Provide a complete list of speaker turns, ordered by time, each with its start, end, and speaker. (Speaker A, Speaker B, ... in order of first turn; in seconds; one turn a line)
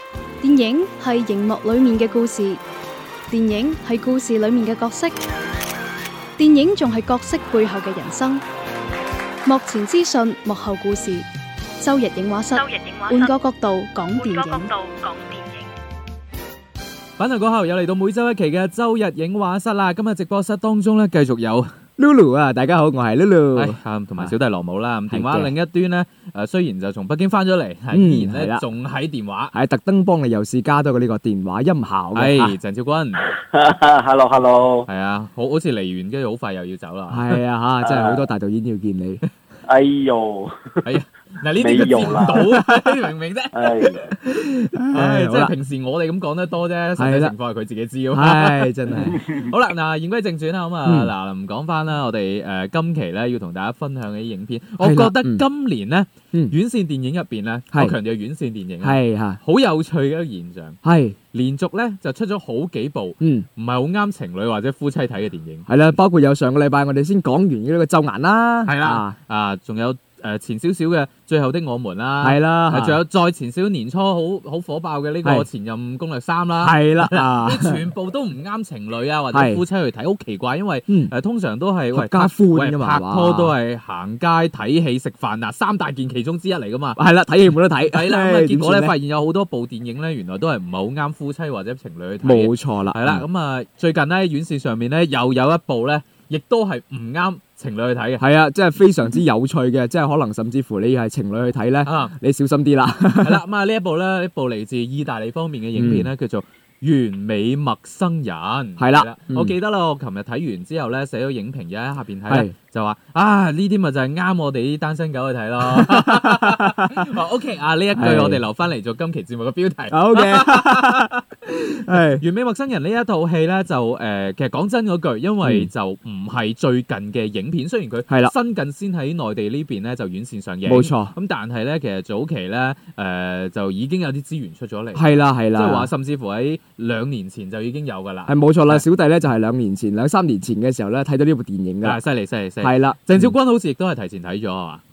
Speaker A: 0.4-2.6
Speaker A: 3.3-5.1
Speaker A: 6.4-8.4
Speaker A: 9.4-11.2
Speaker A: 11.8-14.8
Speaker B: 12.6-13.2
Speaker B: 14.2-15.6
Speaker C: 17.2-21.8
Speaker D: 22.0-24.3
Speaker C: 23.5-29.5
Speaker D: 25.1-25.5
Speaker D: 27.9-28.6
Speaker D: 29.5-32.6
Speaker C: 32.1-33.3
Speaker E: 33.2-34.9
Speaker C: 34.9-37.3
Speaker D: 37.1-39.2
Speaker E: 37.8-38.2
Speaker E: 39.6-40.8
Speaker C: 40.8-60.8
Speaker E: 41.6-42.5
Speaker D: 42.3-42.8
Speaker E: 43.5-44.1
Speaker D: 44.2-45.5
Speaker D: 47.0-47.3
Speaker D: 48.1-49.1
Speaker D: 50.8-51.1
Speaker D: 54.8-55.4
Speaker D: 58.8-59.4
Speaker D: 60.8-61.1
Speaker C: 61.3-65.7
Speaker D: 63.2-63.5
Speaker D: 65.7-69.2
Speaker C: 68.6-87.0
Speaker D: 72.2-73.0
Speaker D: 75.2-75.5
Speaker D: 76.6-77.8
Speaker D: 79.3-79.6
Speaker D: 80.9-81.1
Speaker D: 81.9-83.5
Speaker D: 87.0-89.0
Speaker C: 87.8-98.2
Speaker D: 92.2-93.2
Speaker D: 98.2-103.4
Speaker C: 101.8-102.1
Speaker C: 103.2-138.8
Speaker D: 105.7-106.1
Speaker D: 108.8-109.5
Speaker D: 112.3-112.5
Speaker D: 115.6-117.0
Speaker D: 117.9-118.4
Speaker D: 119.9-121.2
Speaker D: 121.8-122.2
Speaker D: 125.4-125.7
Speaker D: 128.1-128.3
Speaker D: 130.6-131.1
Speaker D: 134.9-135.9
Speaker D: 138.2-142.0
Speaker C: 141.8-144.8
Speaker D: 142.6-143.3